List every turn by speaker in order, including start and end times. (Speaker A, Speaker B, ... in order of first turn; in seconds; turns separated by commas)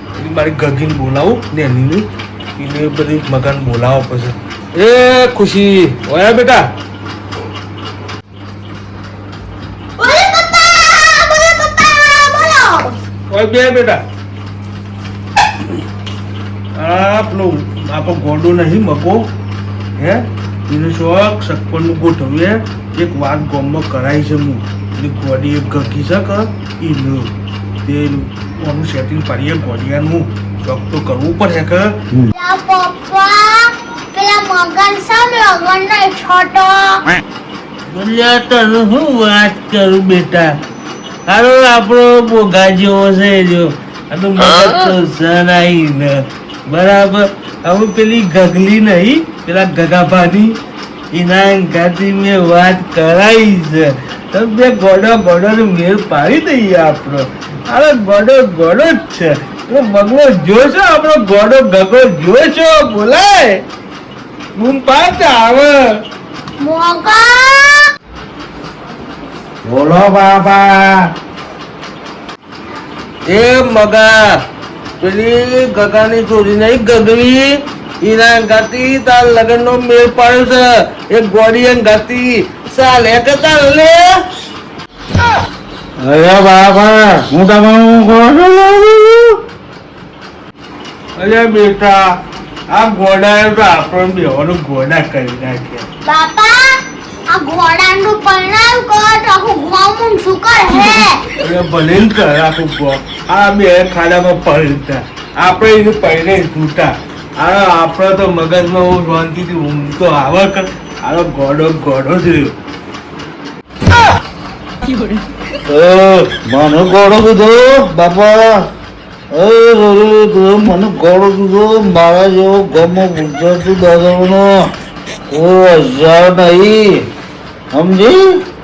Speaker A: 0.2-2.1, Speaker A: 2.6-6.7, Speaker B: 10.0-13.0, Speaker A: 13.3-14.0, Speaker A: 16.8-19.3, Speaker A: 20.0-27.3, Speaker A: 27.8-32.0, Speaker B: 32.3-37.0, Speaker A: 37.9-40.5, Speaker A: 41.3-50.6, Speaker A: 51.1-63.6, Speaker A: 64.6-65.9, Speaker B: 66.6-67.9, Speaker A: 69.7-70.6, Speaker C: 70.2-70.8, Speaker A: 73.3-74.2, Speaker A: 75.0-84.1, Speaker C: 86.0-89.3, Speaker A: 91.2-92.1, Speaker A: 92.7-95.9, Speaker B: 96.0-96.8, Speaker B: 97.3-101.3, Speaker A: 101.3-112.5, Speaker C: 115.6-118.7, Speaker C: 119.3-124.7, Speaker C: 125.3-127.0, Speaker C: 127.7-128.2